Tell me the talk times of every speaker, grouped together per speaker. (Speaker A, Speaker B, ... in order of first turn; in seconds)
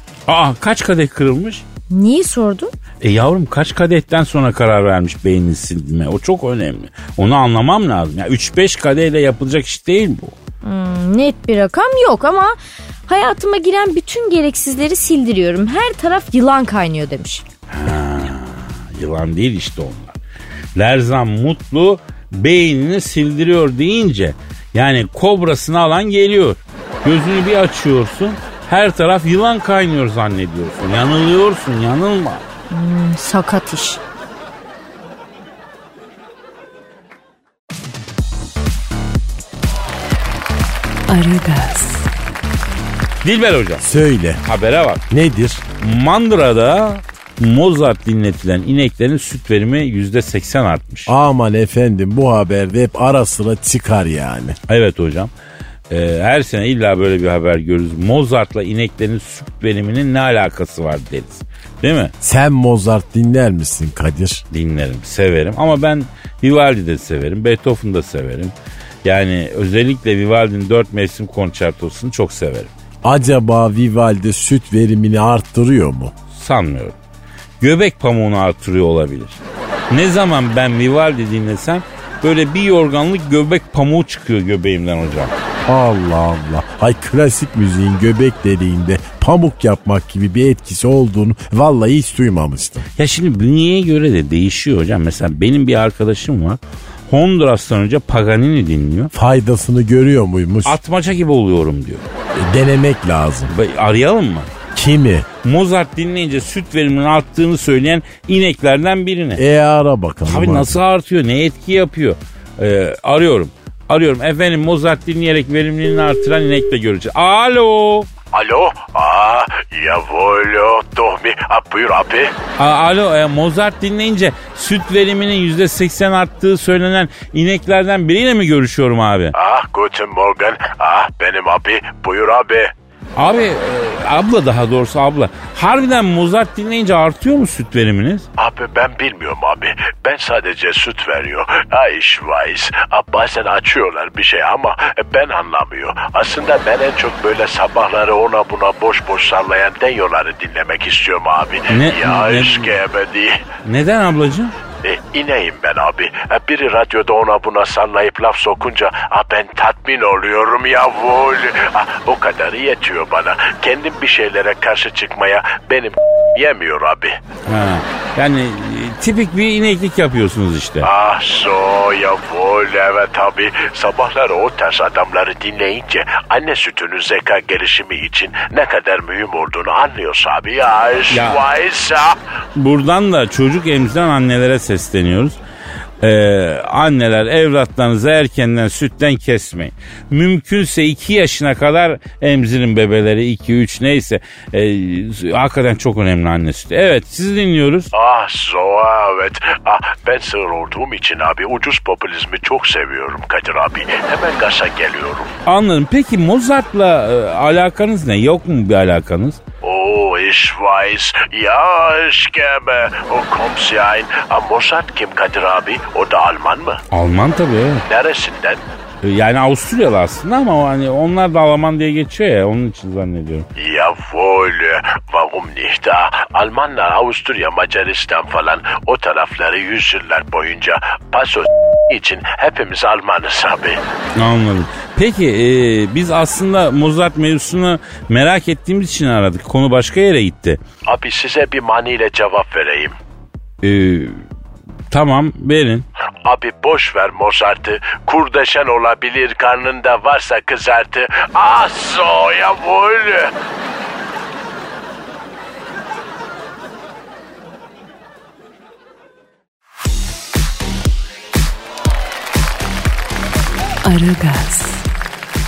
Speaker A: 0.3-1.6, 3.0-10.3, 17.7-20.1, 20.8-32.4, 43.2-43.9, 44.4-45.0, 45.8-51.1, 54.7-55.3, 55.9-62.1, 64.5-68.5, 69.0-72.7, 76.3-77.0, 77.6-85.3, 93.0-99.1, 100.6-102.0, 103.5-104.5, 105.4-109.4, 110.2-118.1, 122.6-129.3, 133.2-138.2, 151.7-152.8, 153.6-154.5, 167.5-170.9, 181.1-181.4, 182.5-185.4, 186.0-197.9, 205.4-209.4, 216.9-217.8, 219.0-223.5, 234.2-240.6, 243.6-244.2, 244.9-245.8
Speaker B: 1.9-2.7, 10.6-12.5, 13.1-17.4, 32.7-34.0
Speaker C: 41.1-42.1, 263.8-264.8
Speaker D: 43.8-44.4, 45.1-45.6, 51.0-54.5, 62.2-64.4, 73.0-76.1, 85.7-92.9, 99.1-100.8, 102.3-103.5, 104.7-105.3, 109.3-110.8
Speaker E: 118.3-122.3, 129.3-132.7, 138.4-153.4, 154.8-167.2, 170.8-182.2, 197.9-205.3, 209.6-216.8, 217.9-218.6, 223.6-233.8, 240.9-243.0, 246.2-253.3